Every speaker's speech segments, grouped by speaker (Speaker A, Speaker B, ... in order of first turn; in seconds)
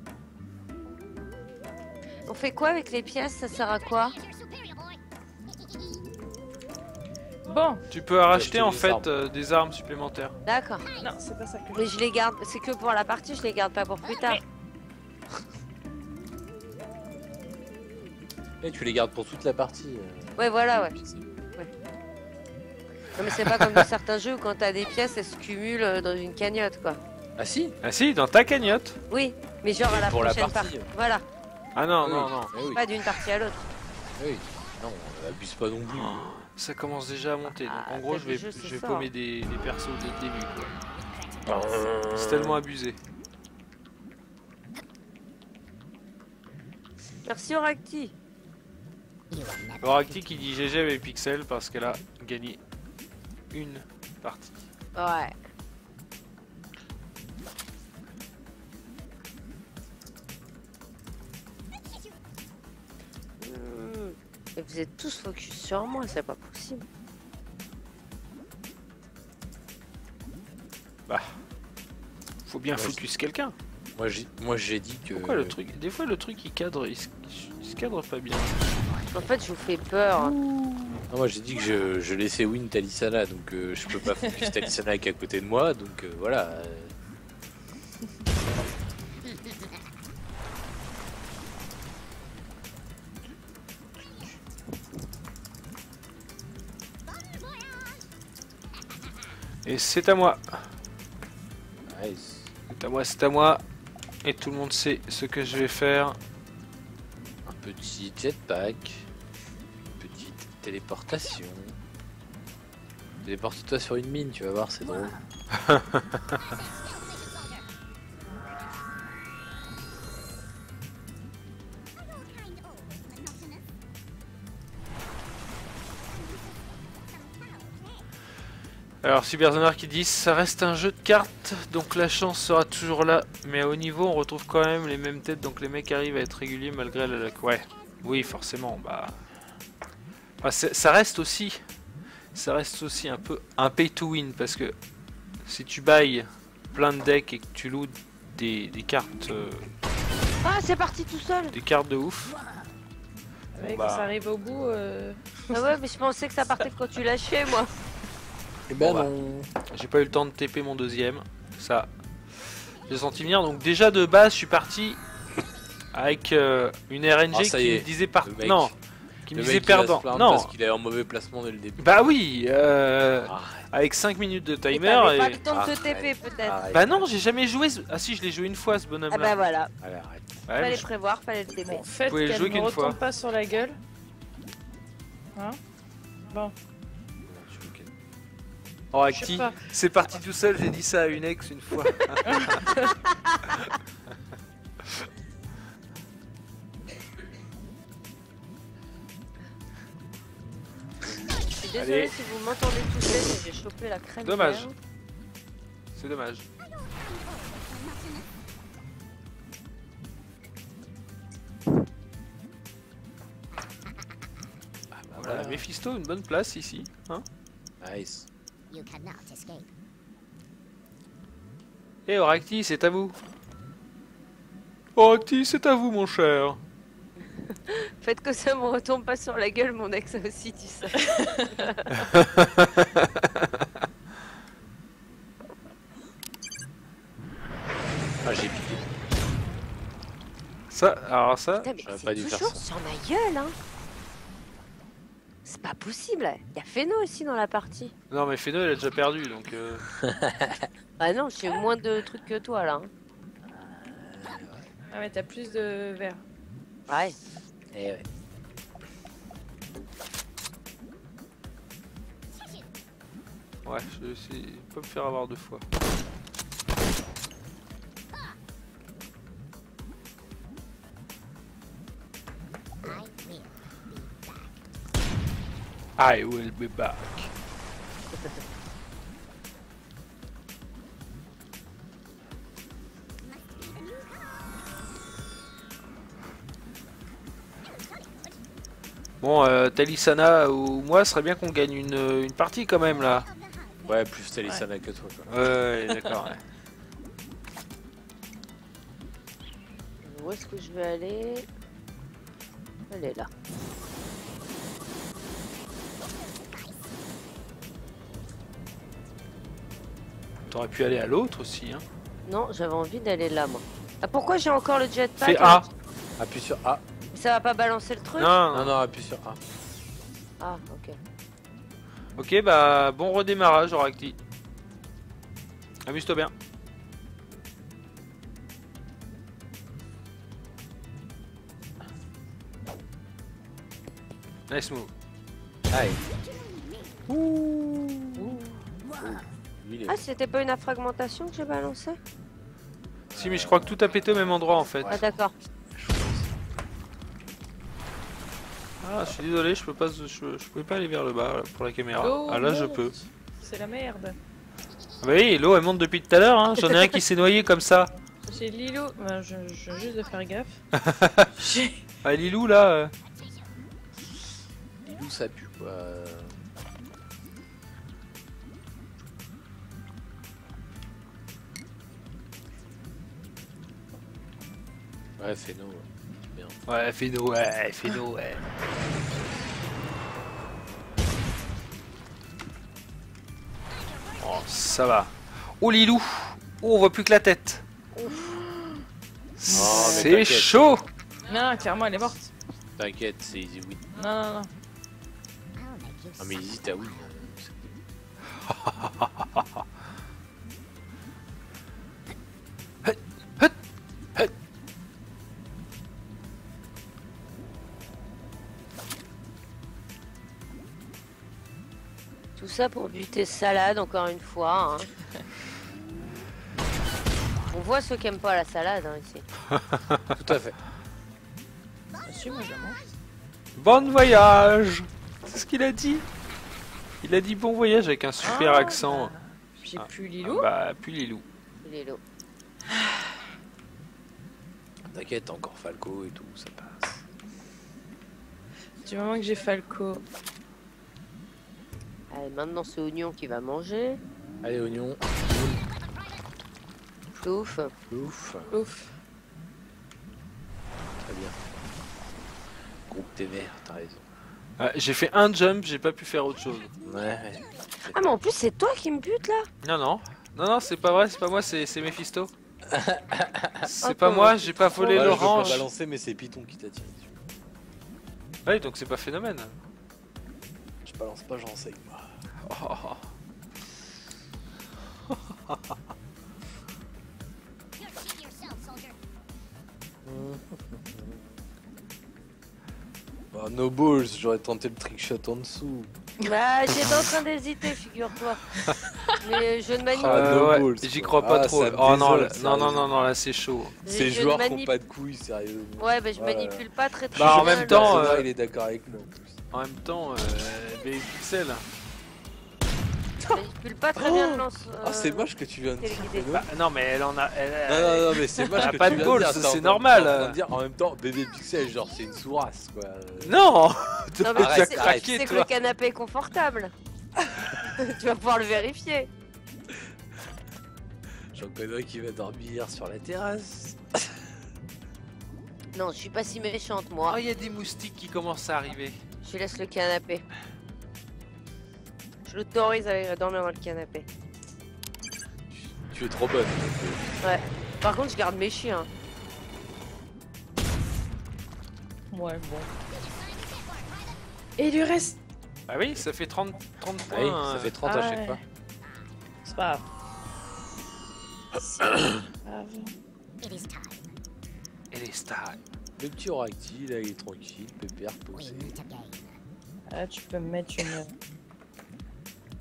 Speaker A: 2.3-4.2, 10.4-10.8, 11.7-14.4, 20.4-20.9, 23.1-27.0, 29.1-31.2, 32.7-33.6, 37.5-39.1, 47.2-48.1, 54.9-55.4, 63.4-66.8, 79.0-80.3, 150.4-151.6, 155.5-157.7, 174.7-176.6, 179.1-179.7, 180.5-181.9, 201.6-204.7, 227.5-231.9, 241.6-243.6, 245.4-247.9, 251.0-252.9, 256.9-257.2, 300.0-301.5, 302.9-303.3, 312.2-315.6, 317.1-318.4, 320.4-320.9, 339.9-342.0, 344.9-345.3, 412.4-414.9, 417.4-419.2, 431.6-432.0, 442.1-444.0, 447.2-447.7, 457.9-459.5, 463.8-465.6, 486.2-488.4, 489.2-490.3, 493.8-494.7, 495.8-498.1, 503.3-506.3, 514.2-516.7, 517.6-519.1, 525.7-527.2, 529.2-530.2, 532.2-534.1, 537.2-538.9
Speaker B: 3.6-6.2, 10.8-11.1, 40.6-42.1, 49.3-50.2, 89.2-89.8, 97.0-98.1, 114.8-115.2, 116.3-117.7, 121.9-123.6, 126.1-128.1, 206.7-208.3, 218.7-219.7, 262.4-262.6, 272.8-274.5, 283.2-284.6, 287.7-288.3, 293.0-294.0, 336.0-337.0, 338.9-339.2, 383.8-384.5, 395.5-397.1, 477.8-479.0, 542.9-544.2, 553.4-554.1, 558.3-559.4
Speaker C: 7.5-7.8, 11.0-11.9, 84.3-84.7, 153.5-155.6, 181.7-183.8, 189.1-189.7, 192.2-192.9, 254.9-256.2, 352.0-354.2, 358.3-360.6, 361.4-361.8, 388.0-388.8, 389.5-390.1, 391.3-392.3, 393.9-394.5, 422.0-422.8, 428.2-430.5, 438.8-440.0, 448.5-448.9, 542.1-542.7, 544.6-545.2, 547.8-548.4, 549.4-549.9, 551.6-551.9, 552.4-552.9, 559.9-561.1
Speaker D: 7.9-10.3, 23.4-23.8, 27.8-29.0, 31.7-32.5, 35.9-40.7, 42.1-43.0, 49.8-52.6, 53.5-54.6, 71.1-71.4, 72.5-73.5, 75.1-78.7, 80.2-81.0, 99.6-100.7, 102.7-103.6, 104.2-106.2, 129.0-139.2, 140.4-141.6, 142.3-144.7, 145.4-149.7, 151.5-152.4, 153.6-154.1, 158.8-159.1, 159.7-161.9, 162.8-165.0, 165.9-168.7, 169.3-170.5, 171.8-175.4, 176.7-179.3, 180.5-180.9, 182.1-183.0, 188.9-192.7, 201.7-202.1, 204.2-204.7, 205.9-206.4, 215.2-217.2, 222.1-223.2, 224.9-226.6, 232.1-233.4, 240.7-241.7, 248.1-249.8, 263.6-265.6, 276.0-277.3, 289.2-293.3, 295.3-296.4, 310.5-311.8, 315.2-315.6, 318.2-318.7, 322.2-324.1, 325.8-326.3, 334.5-334.9, 337.1-338.3, 343.1-345.0, 348.8-352.9, 355.0-357.9, 360.7-361.3, 362.0-362.9, 376.7-378.4, 384.2-387.6, 389.4-390.8, 398.5-399.2, 402.8-403.5, 419.5-420.0, 423.6-426.0, 427.0-429.1, 429.8-431.2, 454.6-456.7, 459.6-462.3, 463.6-465.7, 468.4-469.5, 472.4-473.0, 489.9-493.8, 497.1-498.3, 499.5-501.6, 506.3-510.4, 513.2-515.5, 527.0-529.0, 545.7-547.7, 554.9-555.6
Speaker E: 8.3-9.1, 18.6-21.2, 27.4-27.7, 29.8-30.9, 32.0-32.8, 34.2-36.5, 41.5-42.6, 72.7-73.0, 74.0-75.5, 81.1-86.9, 101.9-102.5, 107.5-109.1, 109.9-111.8, 113.2-115.1, 158.7-159.5, 167.3-168.7, 169.3-171.8, 173.2-173.7, 175.5-177.0, 179.8-180.4, 187.3-187.9, 214.9-215.7, 217.8-218.3, 238.2-238.8, 241.8-242.6, 249.9-250.7, 253.5-254.7, 257.7-258.0, 293.9-295.3, 316.2-316.8, 318.5-319.4, 335.7-336.0, 338.9-340.0, 343.1-343.7, 345.7-346.3, 364.8-366.4, 375.2-376.6, 389.5-390.6, 392.8-393.9, 396.2-397.8, 420.1-420.6, 434.9-437.0, 444.4-445.6, 447.9-448.5, 451.0-451.4, 452.9-454.0, 456.8-458.1, 462.6-463.7, 464.9-467.1, 470.8-472.0, 480.1-481.2, 483.3-485.9, 489.9-492.9, 493.8-499.4, 503.9-506.5, 507.7-513.4, 514.3-515.1, 521.3-524.1, 535.9-537.3, 547.1-548.4, 551.9-552.2, 556.0-558.8